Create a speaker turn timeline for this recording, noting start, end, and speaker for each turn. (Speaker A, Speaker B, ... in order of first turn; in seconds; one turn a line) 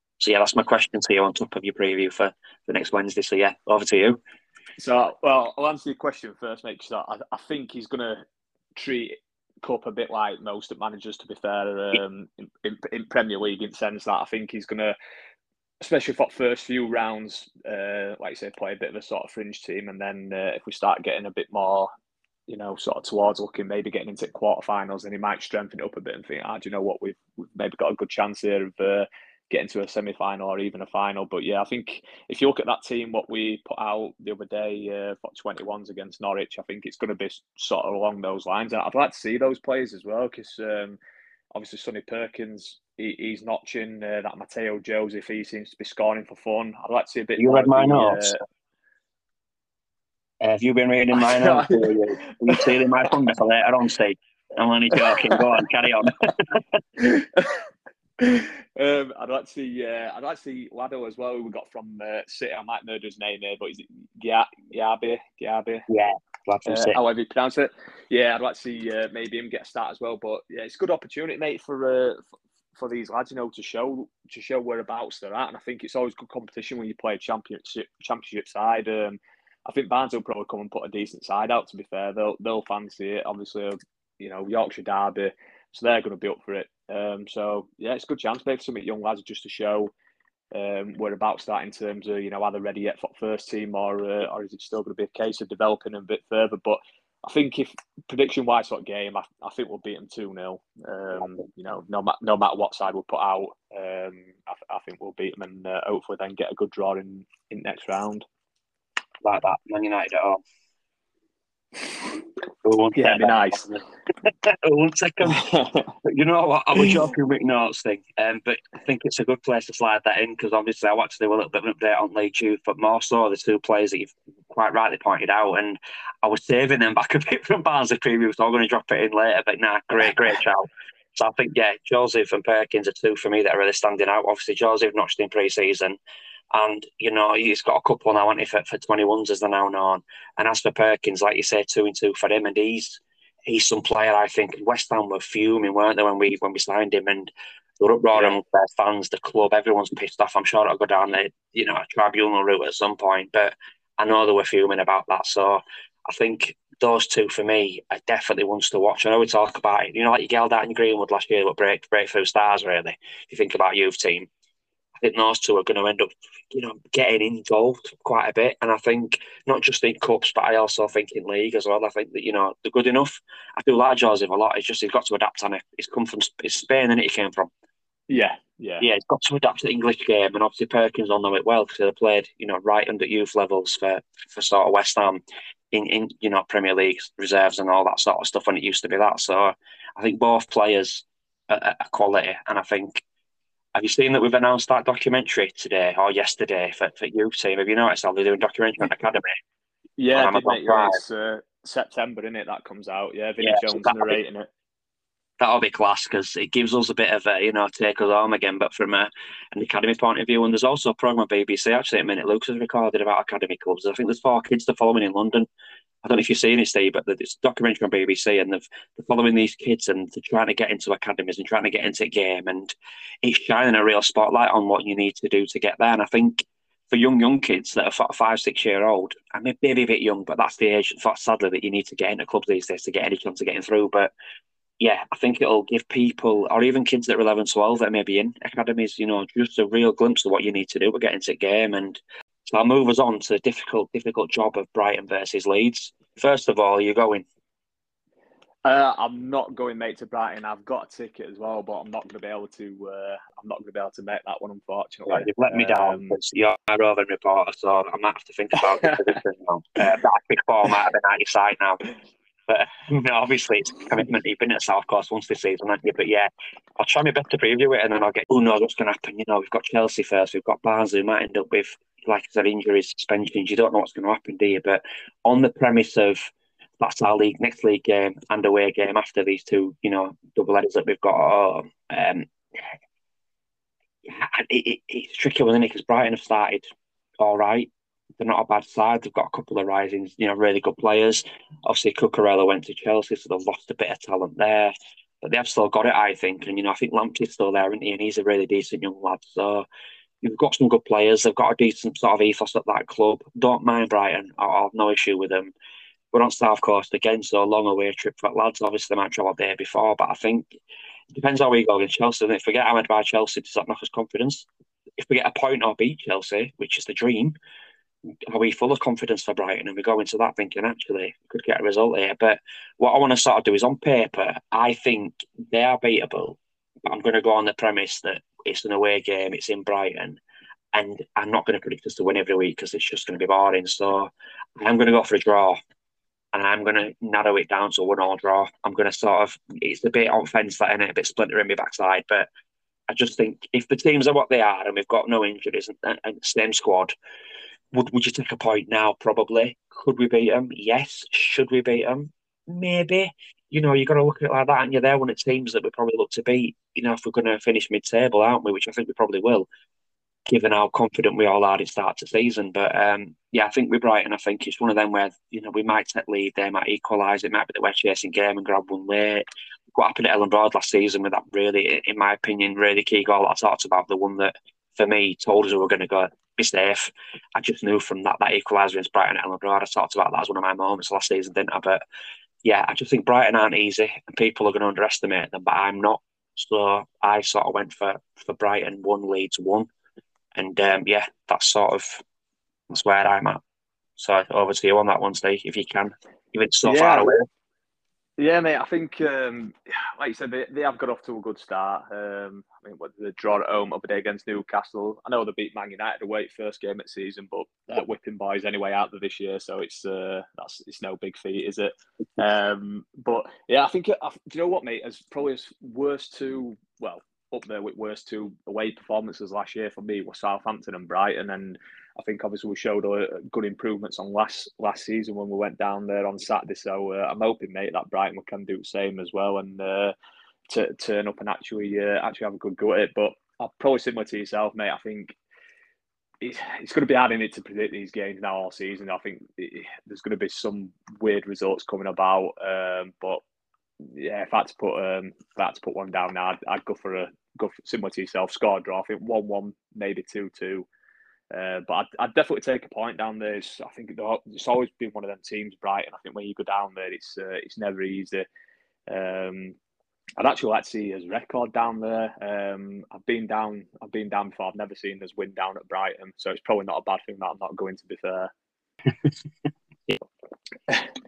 Speaker A: 0.2-4.2
Speaker B: 4.8-8.2
Speaker B: 8.8-14.9
Speaker B: 15.8-21.9
Speaker B: 22.5-41.0
Speaker B: 41.5-48.4
Speaker A: 47.4-48.4
Speaker A: 50.4-56.8
Speaker B: 51.1-52.7
Speaker B: 54.9-55.5
Speaker B: 57.0-57.7
Speaker B: 58.2-65.8
Speaker A: 65.9-67.0
Speaker B: 66.7-72.2
Speaker B: 72.8-89.9
Speaker B: 90.5-108.3
Speaker A: 109.2-110.4
Speaker A: 112.6-115.4
Speaker B: 113.0-113.7
Speaker B: 115.2-116.0
Speaker A: 116.0-136.0
Speaker B: 116.8-117.0
Speaker A: 136.5-164.3
Speaker B: 148.1-148.4
Speaker A: 165.0-177.5
Speaker B: 178.1-178.9
Speaker A: 178.8-193.0
Speaker A: 193.8-199.4
Speaker B: 200.0-204.5
Speaker A: 200.1-201.0
Speaker A: 203.4-204.2
Speaker A: 205.4-215.5
Speaker A: 216.0-234.1
Speaker A: 234.8-247.2
Speaker B: 248.7-256.2
Speaker A: 255.1-261.8
Speaker B: 258.6-259.0
Speaker A: 262.5-282.3
Speaker A: 284.1-286.7
Speaker A: 287.2-299.7
Speaker A: 300.2-305.5
Speaker A: 306.1-310.5
Speaker A: 311.1-314.5
Speaker A: 315.0-317.4
Speaker A: 318.3-330.2
Speaker A: 330.7-335.6
Speaker A: 336.3-342.3
Speaker A: 342.9-346.9
Speaker A: 347.7-359.5
Speaker A: 360.3-381.8
Speaker A: 382.4-389.7
Speaker A: 390.4-392.0
Speaker A: 392.7-393.4
Speaker A: 394.0-397.3
Speaker B: 396.6-397.1
Speaker B: 398.2-429.9
Speaker B: 430.5-435.1
Speaker B: 436.2-443.2
Speaker B: 443.8-450.7
Speaker B: 451.3-458.3
Speaker B: 458.9-459.6
Speaker B: 460.2-468.3